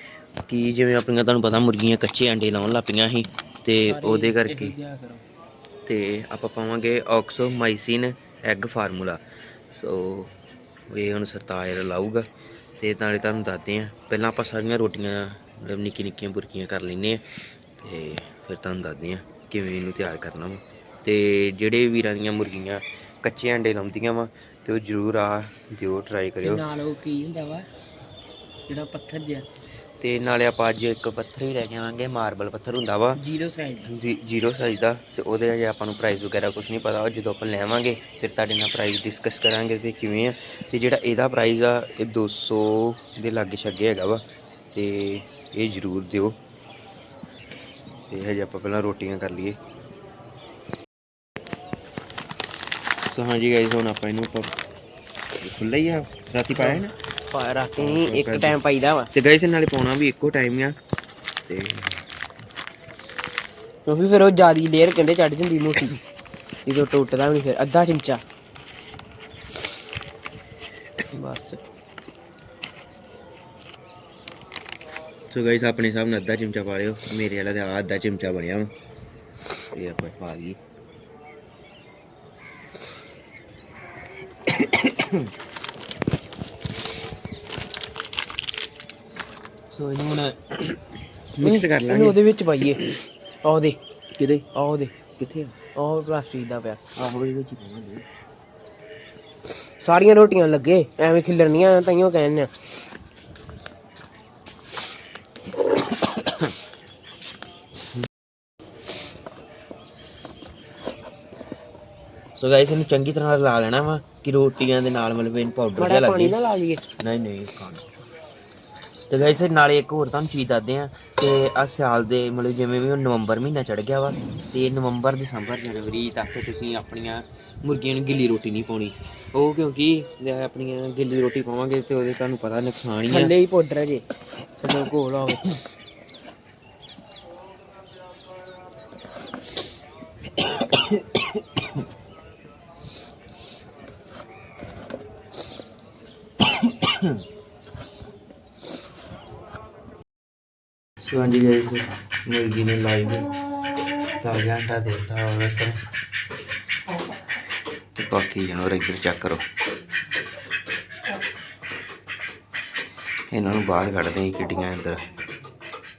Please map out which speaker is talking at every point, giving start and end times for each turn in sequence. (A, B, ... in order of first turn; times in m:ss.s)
0:00.4-0:04.8 A
0:03.8-0:05.2 B
0:05.8-0:09.2 A
0:09.7-0:10.3 A
0:10.9-0:12.2 A
0:12.8-0:17.2 A
0:17.8-0:26.6 A
0:26.4-0:27.7 B
0:28.7-0:29.4 B
0:30.0-0:33.2 A
0:33.1-0:33.9 B
0:33.8-0:44.2 A
0:44.7-0:46.4 A
0:48.1-0:49.6 A
0:53.0-0:54.5 A
0:55.4-0:57.0 A
0:56.5-0:59.1 B
0:57.8-0:58.6 A
0:59.1-1:00.8 A
1:01.5-1:02.0 A
1:03.8-1:06.0 B
1:06.6-1:08.2 B
1:11.1-1:11.6 B
1:15.3-1:18.7 A
1:19.7-1:20.6 A
1:24.6-1:25.2 A
1:29.7-1:30.8 A
1:31.3-1:32.2 A
1:31.4-1:32.9 B
1:33.4-1:33.8 B
1:34.1-1:34.5 A
1:34.5-1:34.9 B
1:35.2-1:35.5 A
1:35.7-1:36.8 B
1:37.0-1:38.0 A
1:39.8-1:42.5 B
1:52.4-1:56.4 A
1:55.8-1:56.8 B
1:57.0-1:57.9 A
1:59.1-2:13.3 A
2:13.1-2:14.0 B
2:14.6-2:15.6 B
2:31.0-2:33.3 A
2:34.2-2:35.8 A
2:37.9-2:39.4 A
2:43.3-2:45.0 A